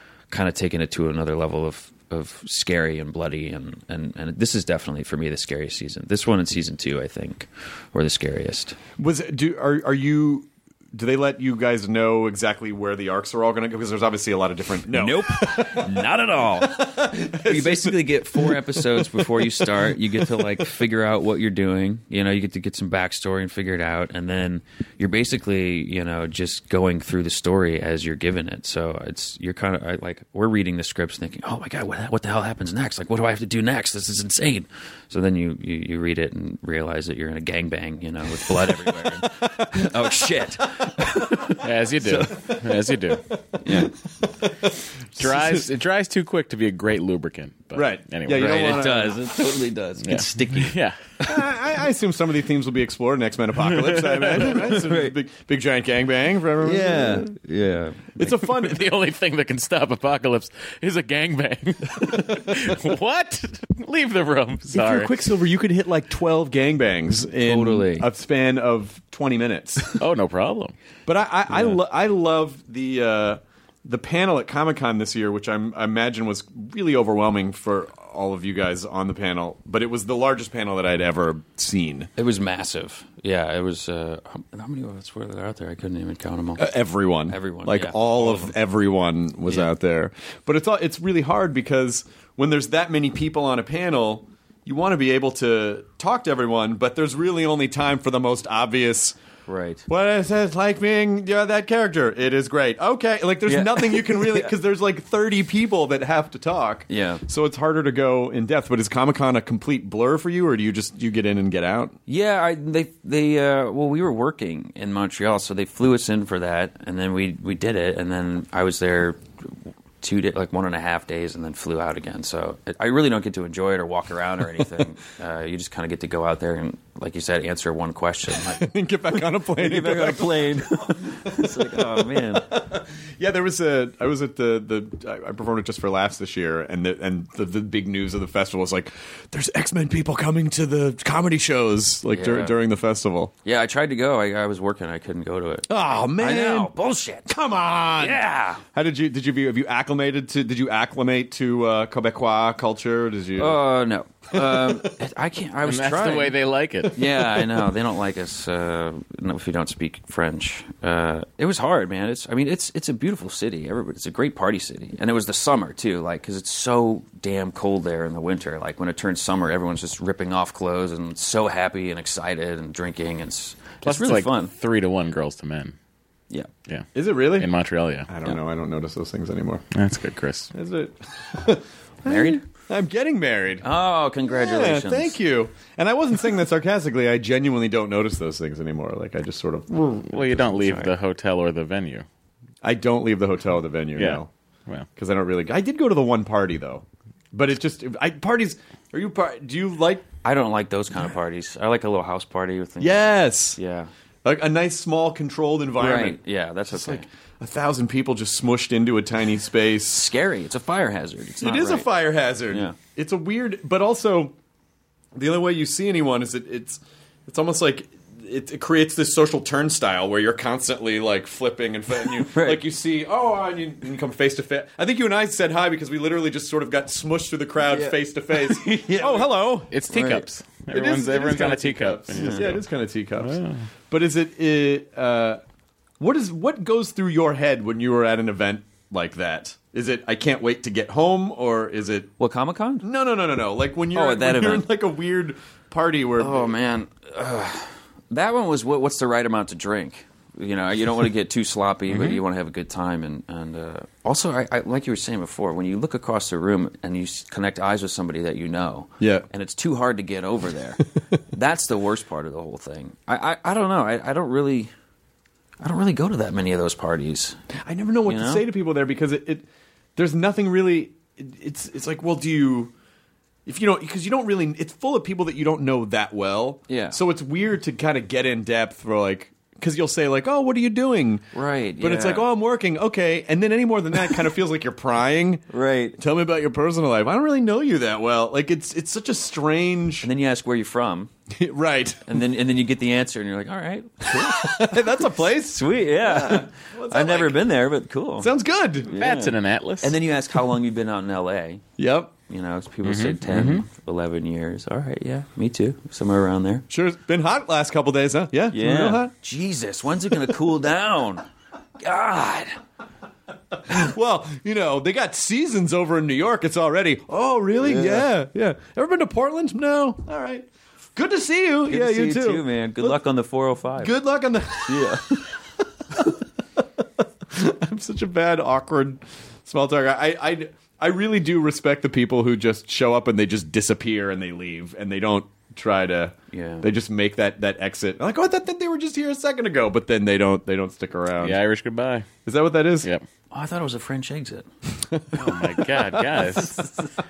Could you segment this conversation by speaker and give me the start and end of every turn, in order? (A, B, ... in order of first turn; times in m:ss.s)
0:00.3-0:08.8 A
0:09.0-0:15.9 B
0:14.9-0:42.4 A
0:16.6-0:20.7 B
0:38.4-0:39.9 B
0:41.6-0:43.2 C
0:42.2-0:43.1 B
0:43.6-0:43.9 A
0:43.7-0:44.3 B
0:45.2-0:45.6 B
0:45.2-0:48.8 C
0:47.7-0:49.2 B
0:48.3-0:50.8 A
0:50.0-0:51.0 C
0:51.2-0:57.3 B
0:53.8-0:54.6 C
0:54.4-0:55.1 A
0:56.6-0:58.3 A
0:58.2-0:58.9 B
0:58.6-1:05.2 C
1:04.7-1:10.0 B
1:07.4-1:08.1 A
1:10.0-1:10.7 C
1:11.0-1:22.1 B
1:22.2-1:26.7 A
1:26.6-1:39.2 B
1:27.3-1:28.5 A
1:39.5-1:39.8 A
1:39.9-1:52.0 B
1:43.5-1:44.5 A
1:46.9-1:47.2 A
1:52.1-2:08.7 A
2:08.5-2:10.6 B
2:09.6-2:12.5 A
2:11.3-2:23.3 B
2:22.1-2:22.6 A
2:23.4-2:27.3 A
2:25.7-2:26.7 B
2:27.3-2:28.2 B
2:28.0-2:28.6 A
2:28.7-2:33.6 B
2:33.4-2:36.4 A
2:34.3-2:34.9 B
2:35.6-2:37.0 C
2:36.9-2:54.5 A
2:53.8-2:55.7 C
2:56.6-2:58.1 C
2:56.9-2:57.5 B
2:58.1-2:59.6 B
2:59.7-3:00.5 C
3:00.5-3:03.6 B
3:02.0-3:02.4 A
3:03.6-3:05.2 A
3:04.3-3:10.4 B
3:09.9-3:12.0 C
3:10.5-3:10.9 A
3:12.6-3:14.3 B
3:14.0-3:14.9 C
3:15.0-3:20.1 B
3:20.2-3:23.9 A
3:22.8-3:23.6 B
3:24.2-3:26.2 B
3:25.8-3:27.1 A
3:26.7-3:30.1 B
3:29.9-3:31.9 A
3:31.4-3:34.3 B
3:32.5-3:32.8 A
3:35.1-3:50.0 B
3:42.0-3:42.6 A
3:47.6-3:50.2 A
3:49.7-3:52.6 C
3:50.7-3:53.4 B
3:52.1-3:52.5 A
3:53.2-3:53.7 C
3:53.9-3:55.4 B
3:56.0-4:02.1 B
4:02.2-4:02.9 A
4:02.8-4:06.5 B
4:03.9-4:04.6 A
4:06.2-4:24.7 A
4:19.0-4:19.2 B
4:25.6-4:27.4 A
4:27.6-4:32.7 B
4:28.0-4:28.4 A
4:33.4-4:41.3 B
4:36.7-4:37.0 A
4:41.3-4:42.3 A
4:41.8-4:45.4 B
4:45.5-4:46.0 A
4:46.0-4:50.1 B
4:50.0-4:51.1 A
4:51.3-4:52.0 B
4:52.0-4:58.3 A
4:54.1-4:57.4 B
4:58.2-4:58.9 B
4:58.9-5:01.6 A
4:59.0-5:00.0 C
5:01.8-5:02.1 B
5:02.3-5:06.6 A
5:02.8-5:03.6 C
5:06.7-5:09.1 B
5:08.5-5:11.2 A
5:11.8-5:12.6 A
5:13.7-5:22.9 B
5:17.6-5:18.1 A
5:21.7-5:23.9 A
5:23.8-5:25.2 B
5:24.6-5:25.2 A
5:27.3-5:41.4 B
5:36.3-5:36.6 A
5:41.2-5:42.1 C
5:42.2-5:42.9 B
5:43.3-5:44.5 A
5:44.8-5:46.6 B
5:45.2-5:46.7 C